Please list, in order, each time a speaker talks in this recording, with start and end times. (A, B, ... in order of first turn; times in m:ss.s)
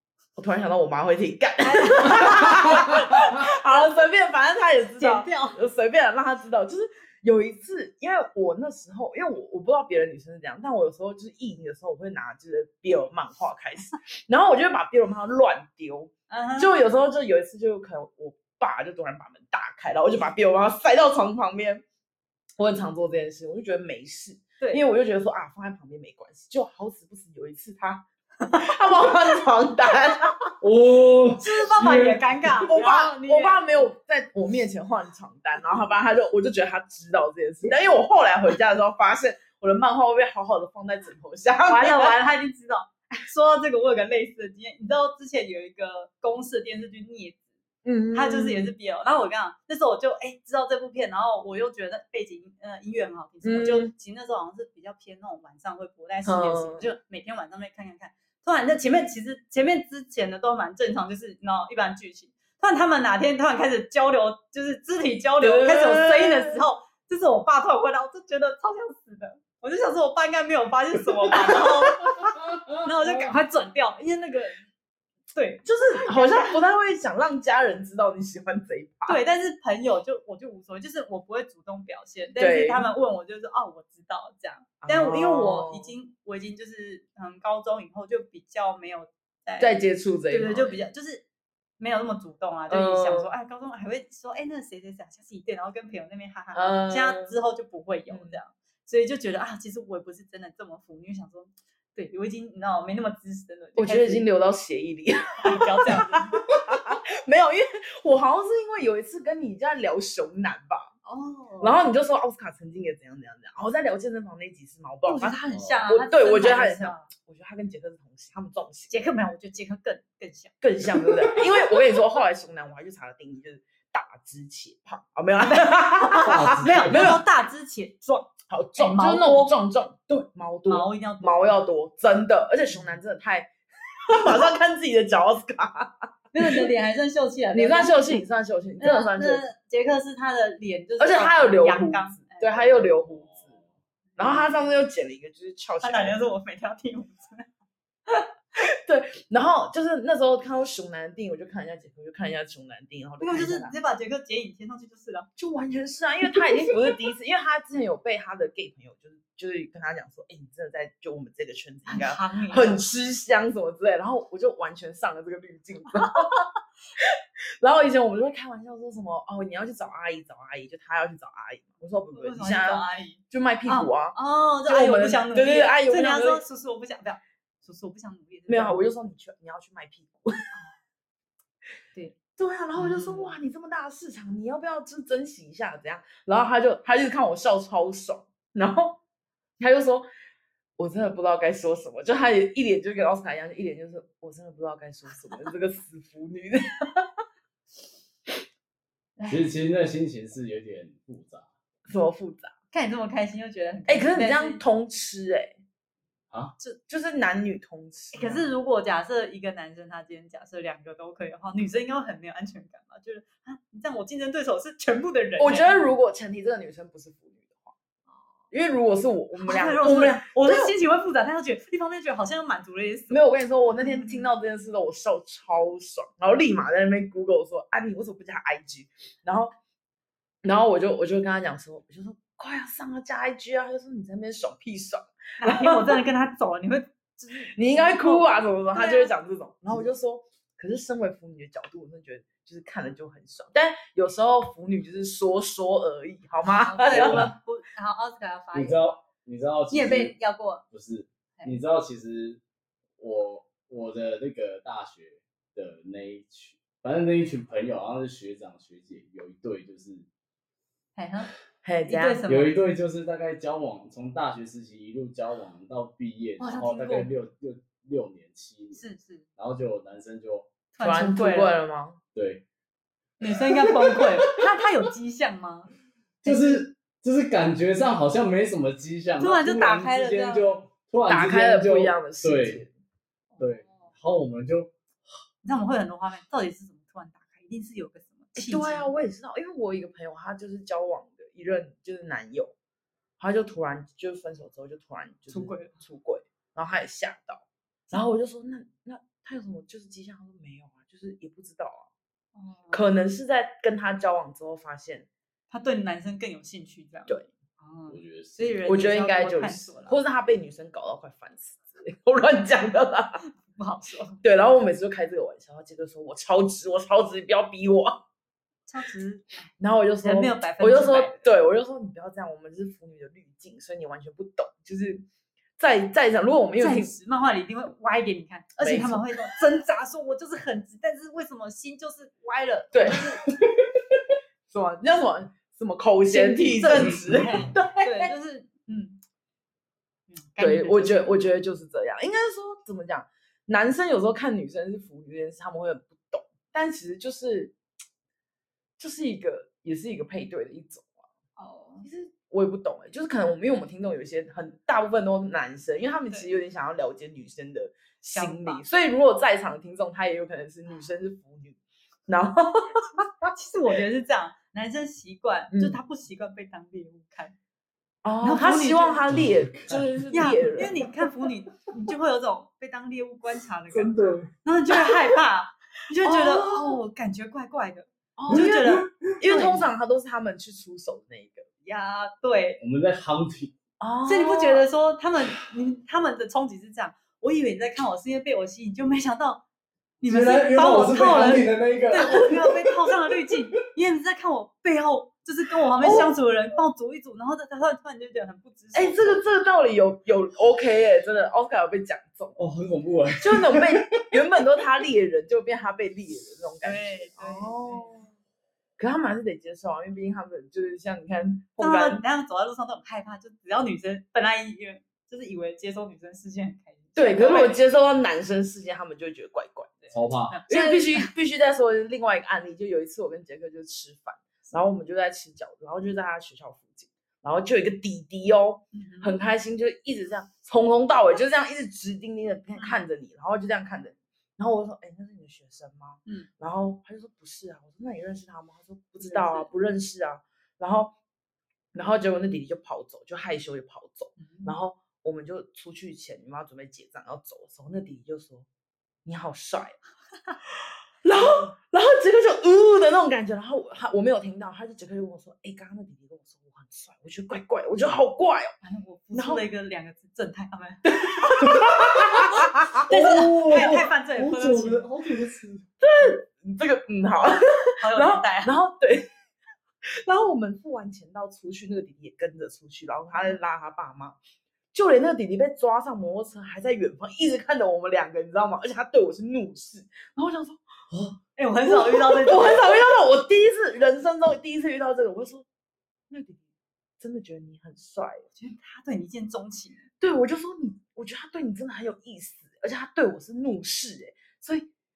0:00.4-0:21.8 A
0:01.6-0:02.9 B
0:05.0-0:05.6 B
0:16.3-0:16.8 B
0:22.6-0:28.0 A
0:28.4-0:29.1 B
0:28.6-0:30.5 A
0:30.6-0:32.7 C
0:31.4-0:33.6 B
0:32.7-0:42.2 A
0:41.7-0:47.4 B
0:47.8-0:48.7 A
0:48.1-1:14.6 B
0:53.4-0:53.9 A
0:56.2-0:56.9 A
1:05.4-1:06.6 A
1:11.4-1:11.7 A
1:15.3-1:16.5 B
1:15.6-1:19.2 A
1:19.1-1:31.2 B
1:22.4-1:22.9 A
1:24.8-1:25.9 A
1:29.6-1:30.8 A
1:31.8-1:44.3 B
1:32.7-1:33.3 A
1:36.5-1:37.3 A
1:38.1-1:38.4 A
1:43.8-1:50.9 A
1:45.4-1:46.4 B
1:51.0-1:51.8 B
1:51.6-1:59.0 A
1:55.0-1:57.1 B
1:55.5-1:55.8 C
1:58.9-2:00.5 B
2:00.6-2:07.2 A
2:05.5-2:09.5 B
2:06.2-2:07.2 C
2:08.5-2:13.5 A
2:10.7-2:11.6 B
2:14.1-2:16.6 A
2:16.3-2:18.2 B
2:17.5-2:19.5 A
2:18.8-2:22.9 B
2:21.0-2:23.5 A
2:23.0-2:23.7 C
2:24.2-2:24.5 B
2:24.2-2:26.2 A
2:25.8-2:27.5 B
2:28.6-2:33.7 A
2:33.2-2:35.3 B
2:35.4-2:46.3 A
2:36.4-2:36.7 B
2:41.9-2:42.8 B
2:45.9-2:46.5 B
2:47.6-2:56.4 A
2:52.1-2:58.9 B
2:58.5-3:00.3 A
3:02.4-3:09.0 A
3:02.8-3:03.4 B
3:09.6-3:10.1 A
3:10.8-3:17.1 A
3:19.2-3:19.5 B
3:19.3-3:21.5 C
3:21.9-3:22.5 A
3:22.7-3:24.6 B
3:23.9-3:25.6 A
3:26.9-3:28.4 A
3:28.1-3:35.8 B
3:35.4-3:37.7 A
3:38.5-3:40.7 A
3:39.4-3:43.2 B
3:43.1-3:49.5 A
3:50.4-3:56.0 A
3:55.4-3:59.1 B
3:57.5-4:07.3 A
4:06.4-4:08.8 B
4:06.9-4:07.3 C
4:08.6-4:12.4 C
4:09.7-4:10.6 B
4:13.0-4:20.1 C
4:21.0-4:21.3 B
4:21.6-4:22.2 A
4:21.8-4:22.6 B
4:22.3-4:28.8 C
4:26.4-4:27.1 B
4:28.7-4:29.2 B
4:29.4-4:30.5 C
4:30.8-4:31.5 B
4:30.8-4:32.0 A
4:32.2-4:32.4 C
4:33.2-4:35.7 B
4:33.3-4:34.1 C
4:36.2-4:42.6 C
4:39.2-4:40.5 B
4:41.1-4:42.7 A
4:43.3-4:43.9 B
4:43.4-4:45.1 C
4:45.4-4:48.9 B
4:48.4-4:52.6 A
4:53.2-5:01.9 A
4:55.3-4:55.8 B
5:02.4-5:02.8 B
5:02.7-5:05.1 A
5:05.5-5:10.0 B
5:07.9-5:08.6 C
5:08.7-5:13.2 A
5:13.5-5:14.2 B
5:14.2-5:18.0 A
5:18.7-5:21.3 B
5:19.6-5:25.1 A
5:25.6-5:26.9 A
5:26.6-5:33.2 B
5:28.6-5:29.2 A
5:32.7-5:33.0 A
5:34.5-5:38.1 A
5:36.1-5:39.0 B
5:40.1-5:41.2 B
5:40.4-5:47.5 A
5:48.8-5:50.9 A
5:51.4-5:51.9 B
5:51.8-6:03.3 A
5:58.1-5:58.6 B
6:03.3-6:07.4 B
6:05.5-6:05.8 A
6:08.0-6:10.8 A
6:08.2-6:09.0 B
6:09.1-6:09.9 C
6:10.1-6:19.6 B
6:13.7-6:14.3 C
6:16.0-6:16.6 A
6:18.2-6:21.5 A
6:18.3-6:19.0 C
6:21.6-6:22.6 B
6:22.6-6:23.5 C
6:23.8-6:24.7 A
6:24.1-6:29.4 B
6:30.0-6:39.2 B
6:30.0-6:32.7 C
6:38.8-6:42.4 A
6:42.4-6:44.2 C
6:43.2-6:48.1 A
6:46.6-6:48.0 B
6:48.8-6:52.0 A
6:51.6-6:57.6 B
6:57.0-6:59.8 A
6:59.8-7:01.1 B
6:59.9-7:00.4 C
7:00.5-7:21.0 A
7:08.7-7:09.2 B
7:12.6-7:12.8 B
7:19.0-7:19.5 B
7:21.7-7:28.5 A
7:24.2-7:24.6 B
7:29.0-7:29.8 A
7:30.5-7:38.5 A
7:31.1-7:31.5 B
7:38.6-7:41.7 B
7:39.1-7:39.4 A
7:41.0-7:43.0 A
7:41.4-7:42.2 C
7:42.8-7:45.7 C
7:42.8-7:44.8 B
7:45.8-7:49.1 A
7:47.8-7:48.6 B
7:50.0-7:54.2 A
7:54.7-8:00.6 A
8:00.9-8:01.2 C
8:01.4-8:02.7 B
8:01.7-8:05.5 A
8:06.1-8:06.4 A
8:07.0-8:08.3 A
8:08.4-8:09.9 B
8:10.0-8:14.7 A